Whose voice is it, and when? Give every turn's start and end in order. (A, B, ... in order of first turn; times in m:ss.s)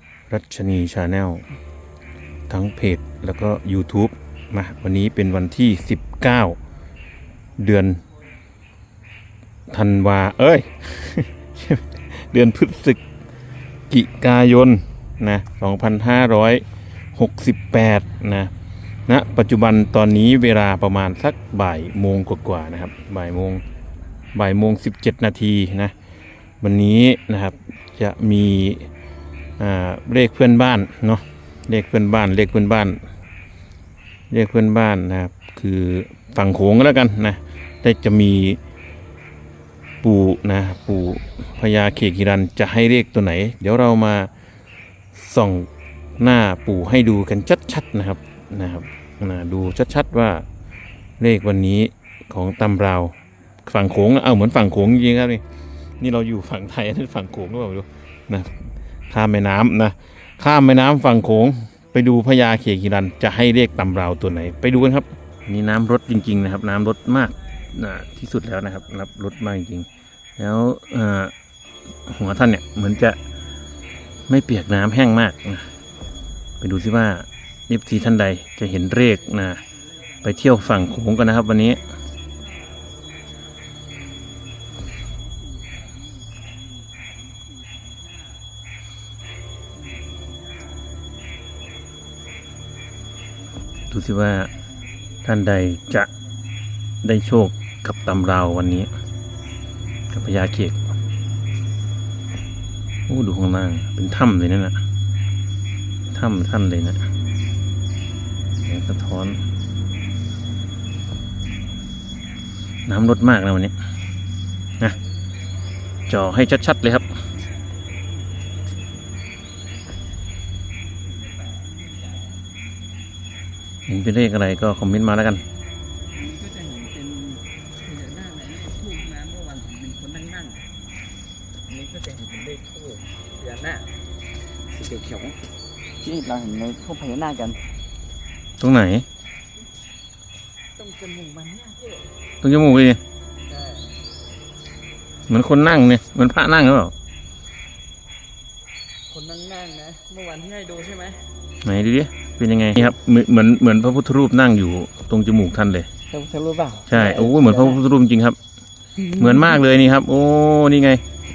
0:00.3-0:01.4 A
0:02.5-0:06.6 A
0:07.6-0:08.0 A
0:09.7-0:13.0 A
0:13.9-0:16.6 A
0:17.2-0:18.5 A
0:19.1-0:23.6 A
0:24.3-0:26.0 A
0:26.6-0:28.9 A
0:29.6-0:33.0 A
0:34.3-0:38.6 A
0:40.0-0:44.3 A
0:45.2-0:50.4 A
0:51.2-0:55.4 A
0:56.0-1:11.3 A
1:12.1-1:13.2 A
1:14.3-1:15.7 A
1:16.6-1:19.7 A
1:20.2-1:21.9 A
1:22.4-1:28.4 B
1:30.0-1:30.8 B
1:33.9-1:34.5 A
1:35.2-1:36.1 A
1:37.0-1:38.9 A
1:40.1-1:40.8 A
1:43.1-1:44.8 A
1:46.1-1:47.1 A
1:48.6-1:49.4 A
1:52.9-1:53.8 A
1:56.1-1:57.1 A
1:58.0-1:58.7 B
2:01.0-2:02.4 B
2:03.9-2:05.4 A
2:06.1-2:10.7 B
2:11.7-2:14.0 B
2:14.7-2:15.4 B
2:16.0-2:17.6 B
2:18.6-2:19.1 A
2:20.8-2:22.2 B
2:22.4-2:23.0 A
2:23.5-2:24.0 B
2:25.3-2:26.9 A
2:29.1-2:31.3 B
2:31.6-2:35.9 A
2:36.1-2:37.8 B
2:36.9-2:38.4 A
2:39.0-2:39.3 B
2:39.1-2:41.0 A